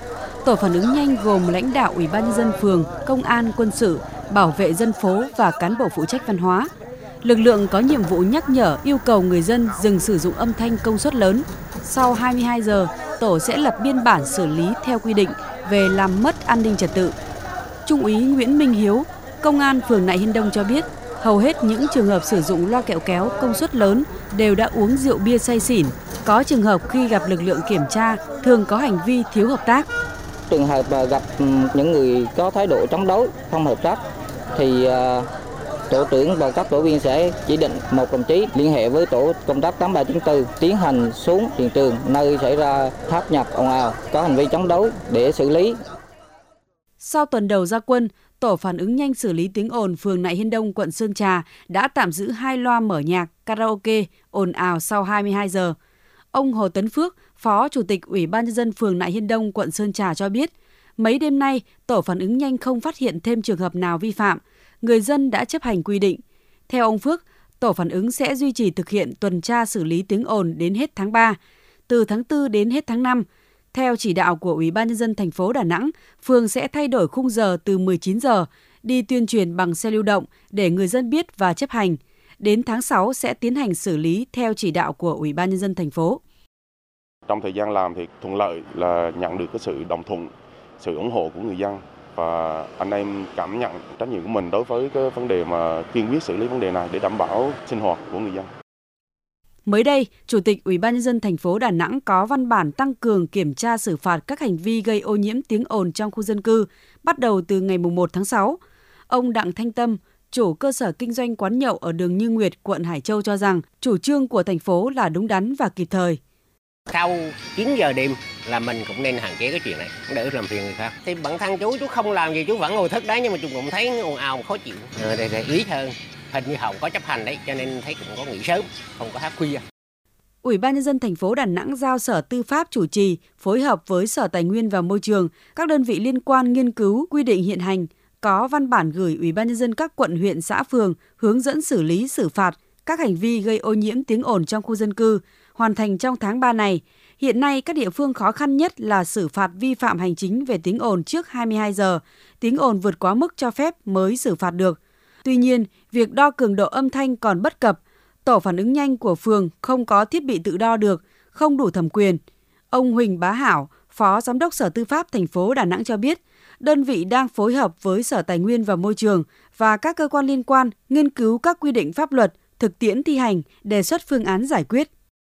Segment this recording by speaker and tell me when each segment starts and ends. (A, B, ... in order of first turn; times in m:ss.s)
0:00.4-0:06.7 A
0:07.2-0:17.1 A
0:17.8-0:29.9 A
0:30.5-0:34.0 B
0:34.5-0:35.3 B
0:35.9-0:45.8 B
0:47.0-0:55.7 A
0:56.3-1:11.4 A
1:11.9-1:26.2 A
1:27.3-1:38.5 C
1:39.6-1:56.2 A
1:56.9-2:09.6 D
2:10.4-2:42.2 A
2:42.7-2:54.9 A